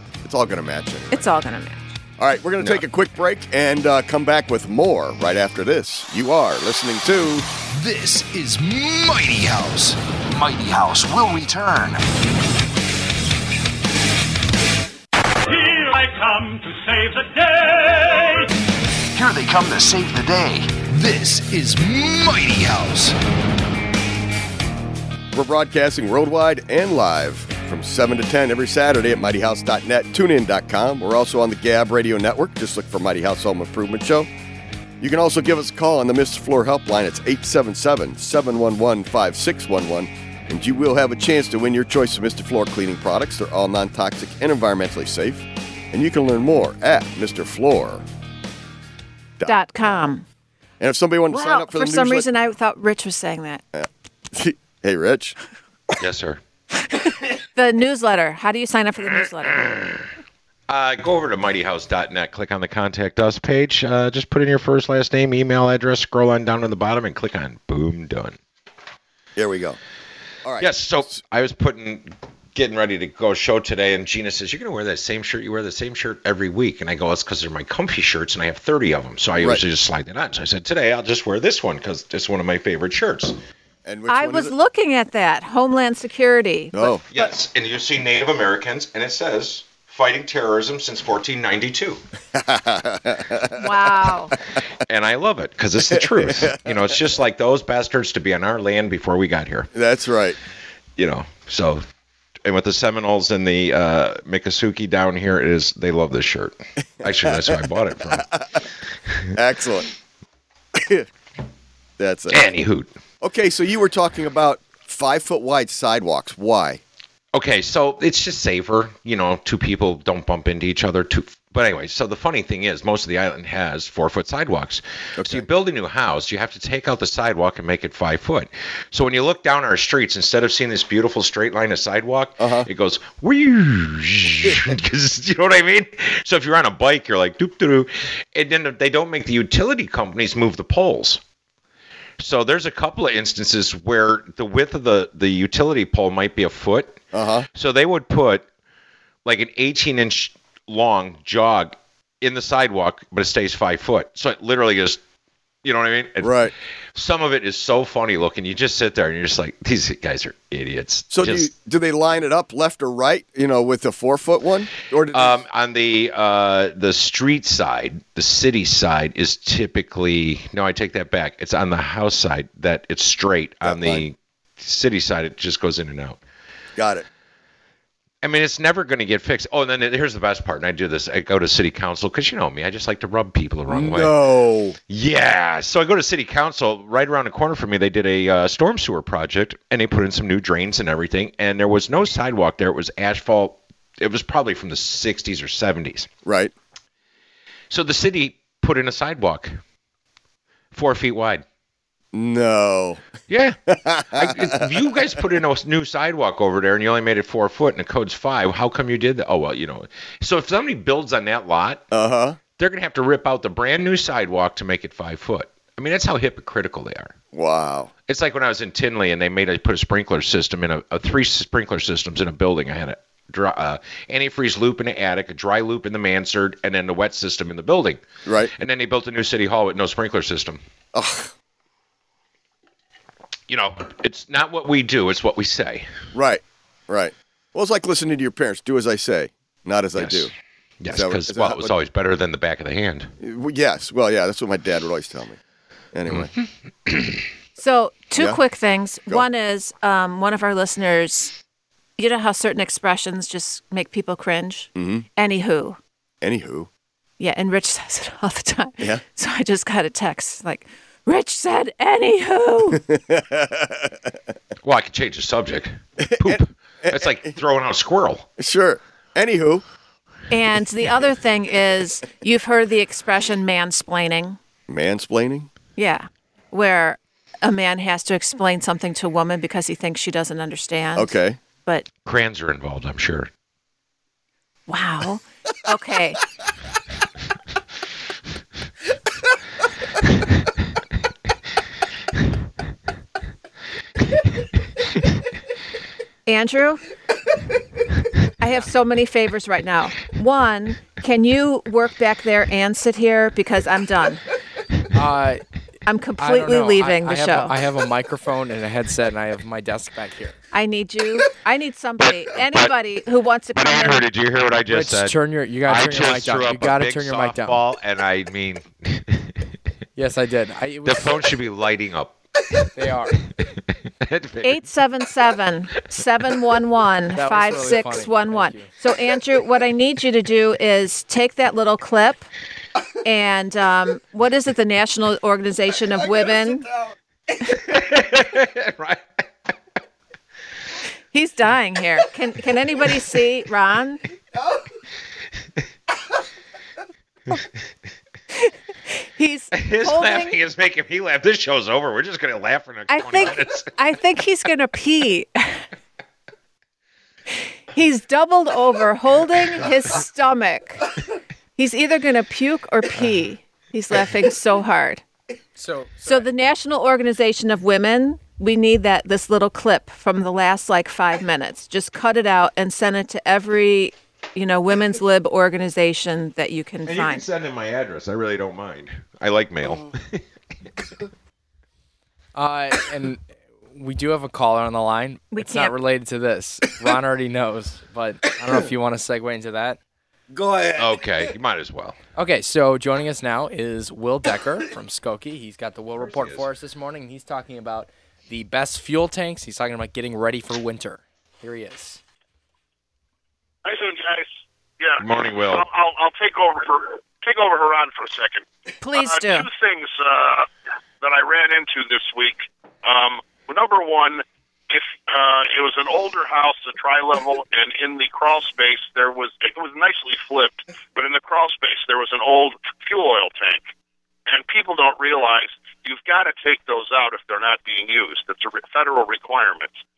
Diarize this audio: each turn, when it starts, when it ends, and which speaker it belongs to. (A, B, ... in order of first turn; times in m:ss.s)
0:00.2-0:01.2 A
0:01.1-0:01.9 B
0:02.2-0:07.5 A
0:07.6-0:12.0 C
0:15.4-0:18.5 D
0:19.1-0:23.2 C
0:25.3-0:34.3 A
0:35.0-0:48.0 A
0:49.4-0:49.6 A
0:49.4-0:50.2 B
0:50.8-0:52.3 A
0:51.3-0:53.6 B
0:53.7-0:55.4 A
0:56.0-0:56.4 E
0:57.5-0:59.7 B
1:00.7-1:08.4 E
1:09.4-1:09.8 A
1:10.4-1:11.2 A
1:10.6-1:23.4 E
1:23.8-1:24.5 A
1:24.1-1:27.0 B
1:26.7-1:27.0 A
1:27.1-1:32.0 E
1:32.3-1:33.9 A
1:33.6-1:34.4 B
1:34.9-1:39.7 E
1:35.9-1:36.8 A
1:39.7-1:40.4 A
1:41.0-1:41.8 E
1:42.4-1:48.3 E
1:47.0-1:48.6 A
1:49.3-1:49.9 A
1:50.7-1:51.1 A
1:52.0-1:52.4 A
1:52.3-1:52.9 E
1:53.2-1:56.8 A
1:57.3-2:21.2 E
2:05.2-2:05.5 A
2:12.4-2:12.7 A
2:22.2-2:27.0 E
2:27.1-2:27.5 A
2:27.6-2:28.5 E
2:29.2-2:35.0 E
2:35.6-2:41.5 E
2:36.2-2:36.5 A
2:41.1-2:45.4 A
2:45.1-2:56.2 E
2:53.6-2:54.0 A
2:56.8-2:57.1 A
2:58.2-3:04.2 E
3:03.7-3:04.8 A
3:04.9-3:16.1 E
3:16.2-3:16.5 A
3:17.7-3:19.6 E
3:20.7-3:21.4 E
3:22.1-3:23.0 A
3:23.3-3:23.6 E
3:23.7-3:25.0 A
3:24.1-3:31.8 E
3:31.9-3:32.4 A
3:32.6-3:37.1 E
3:37.3-3:37.9 A
3:38.1-3:48.0 E
3:48.2-3:48.5 A
3:48.6-3:50.6 E
3:50.9-3:51.3 A
3:53.5-3:55.9 E
3:56.1-4:00.3 A
4:00.0-4:00.3 E
4:00.8-4:03.1 E
4:00.9-4:01.8 A
4:03.2-4:05.4 A
4:05.9-4:06.3 A
4:06.9-4:07.2 E
4:07.6-4:11.4 B
4:12.0-4:15.8 B
4:14.8-4:15.0 A
4:16.2-4:16.7 A
4:17.2-4:22.8 B
4:22.8-4:24.2 A
4:24.6-4:28.3 E
4:26.0-4:27.3 A
4:28.4-4:29.6 A
4:30.3-4:34.4 B
4:34.7-4:35.5 A
4:35.8-4:41.9 B
4:41.0-4:41.4 A
4:42.0-4:43.3 E
4:44.7-4:46.2 B
4:56.2-4:56.8 B
4:58.4-5:04.2 B
5:04.9-5:05.4 F
5:05.9-5:07.5 B
5:06.2-5:10.4 F
5:10.5-5:14.0 B
5:13.6-5:19.4 E
5:14.7-5:17.6 F
5:20.0-5:21.3 F
5:20.8-5:22.2 E
5:22.8-5:23.2 F
5:24.0-5:24.6 E
5:24.4-5:32.3 B
5:27.1-5:28.7 F
5:33.0-5:36.7 B
5:37.5-5:39.0 E
5:41.1-5:44.0 B
5:48.4-5:50.4 B
5:49.5-5:53.7 E
5:52.9-5:55.6 B
5:57.7-6:00.9 B
6:01.6-6:05.0 B
6:05.6-6:06.2 F
6:06.0-6:17.2 B
6:16.9-6:20.2 E
6:22.3-6:29.8 F
6:25.3-6:25.8 B
6:30.8-6:32.0 E
6:32.2-6:42.0 F
6:43.6-6:50.5 G
6:45.0-6:45.7 E
6:48.8-6:49.5 B
6:51.0-7:03.7 G
7:04.3-7:09.8 G